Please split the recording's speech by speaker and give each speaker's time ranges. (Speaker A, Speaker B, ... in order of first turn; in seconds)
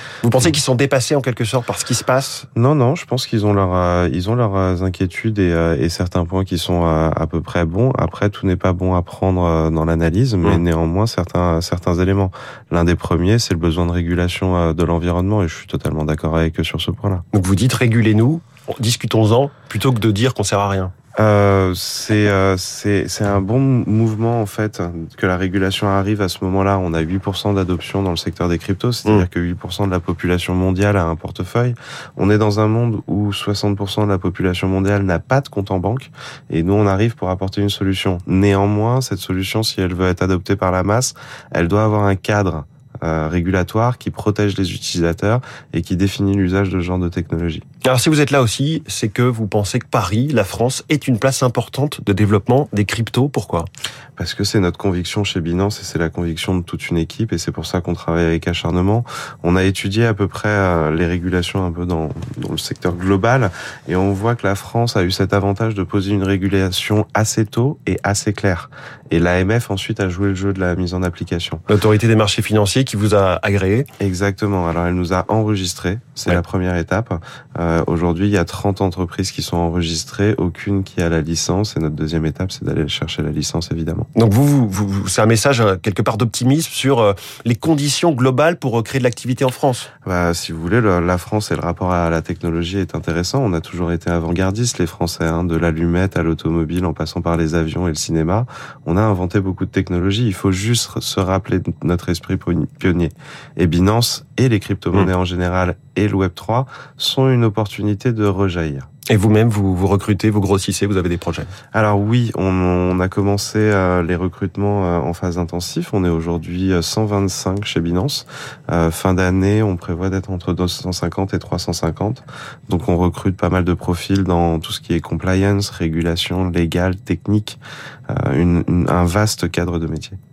Speaker A: 0.2-2.5, 17.3-20.9, 47.8-53.7, 71.7-73.9, 84.2-89.9, 109.1-111.5
Speaker B: 2.5-17.2, 21.2-47.6, 54.2-71.6, 74.0-84.1, 90.0-108.9, 111.7-127.6, 128.1-130.2